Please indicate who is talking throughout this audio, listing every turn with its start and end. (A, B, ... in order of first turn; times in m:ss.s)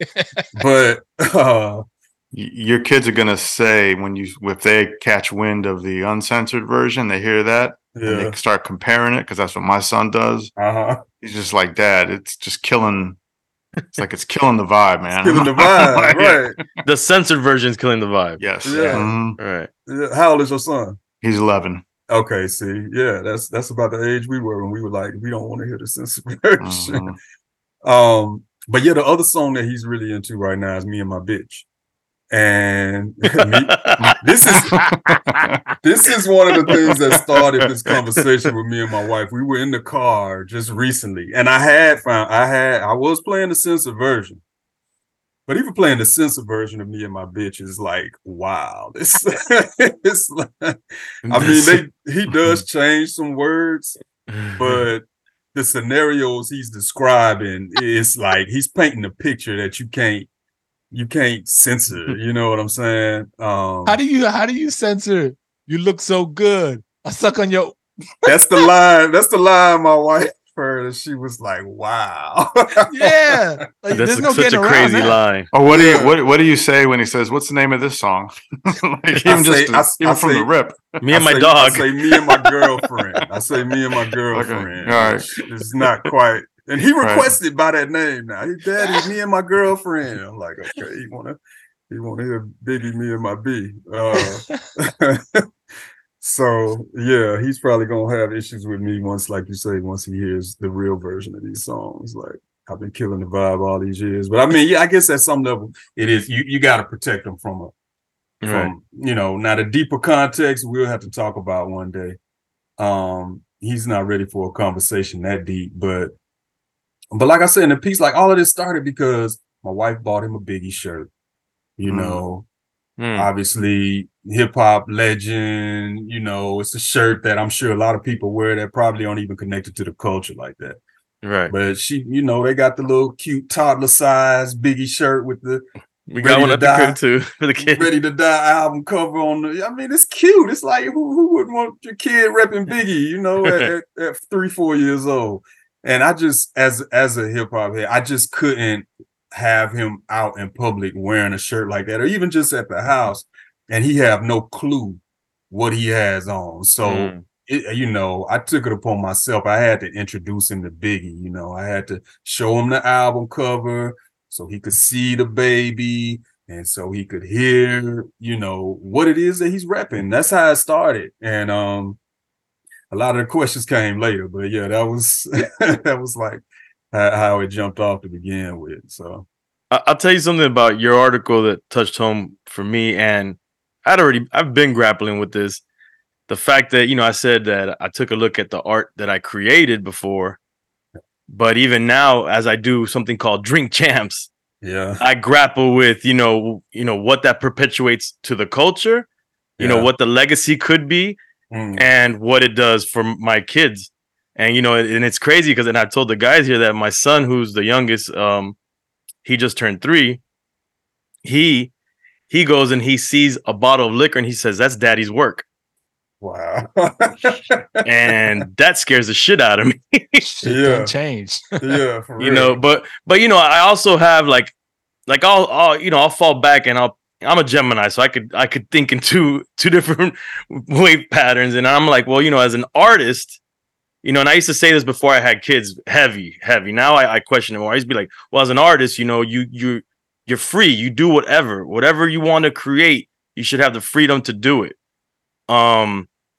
0:00.2-0:00.4 A
0:00.5-0:01.8 B
0:02.3-0:10.5 C
0:07.9-0:08.4 B
0:10.6-0:11.0 B
0:11.2-0:13.2 C
0:13.9-0:16.6 C
0:15.1-0:16.6 B
0:16.8-0:19.7 D
0:18.4-0:19.4 C
0:18.6-0:19.1 B
0:19.8-0:21.0 B
0:21.2-0:21.8 C
0:22.1-0:27.1 B
0:26.6-0:27.2 C
0:27.8-0:31.6 B
0:32.3-0:34.8 B
0:33.4-0:34.2 D
0:34.7-0:35.4 A
0:34.7-0:35.6 C
0:35.8-0:44.4 B
0:45.5-0:54.0 B
0:51.2-0:51.8 D
0:54.3-0:54.9 D
0:54.5-1:00.3 B
1:00.9-1:04.0 B
1:03.8-1:08.6 A
1:08.2-1:13.4 B
1:12.9-1:15.2 A
1:13.9-1:15.5 D
1:15.5-1:21.0 C
1:15.6-1:16.2 B
1:19.2-1:20.5 B
1:21.0-1:21.9 D
1:21.1-1:31.4 B
1:24.3-1:25.4 C
1:27.0-1:27.3 C
1:31.9-1:35.5 B
1:36.2-1:47.7 B
1:48.4-1:48.7 D
1:48.5-1:52.2 B
1:52.8-1:56.1 B
1:57.1-2:01.1 B
2:01.8-2:02.4 B
2:01.8-2:02.2 D
2:03.0-2:03.3 D
2:03.1-2:10.8 B
2:11.2-2:11.5 D
2:11.5-2:15.6 B
2:16.1-2:17.9 D
2:16.2-2:17.0 B
2:17.6-2:52.0 B
2:36.8-2:37.2 D
2:52.9-2:59.2 B
2:59.7-3:05.6 D
3:06.3-3:10.4 D
3:11.3-3:14.3 D
3:14.6-3:15.0 B
3:15.0-3:19.1 D
3:19.6-3:19.9 B
3:19.6-3:21.2 D
3:21.5-3:21.8 B
3:21.8-3:28.6 D
3:29.2-3:30.2 D
3:31.2-3:31.7 D
3:32.3-3:35.4 D
3:36.2-3:38.4 B
3:37.8-3:40.2 D
3:40.2-3:41.7 A
3:40.4-3:40.9 B
3:41.6-3:42.6 B
3:42.2-3:44.5 D
3:45.1-3:53.4 D
3:54.0-4:04.8 D
4:05.5-4:06.1 D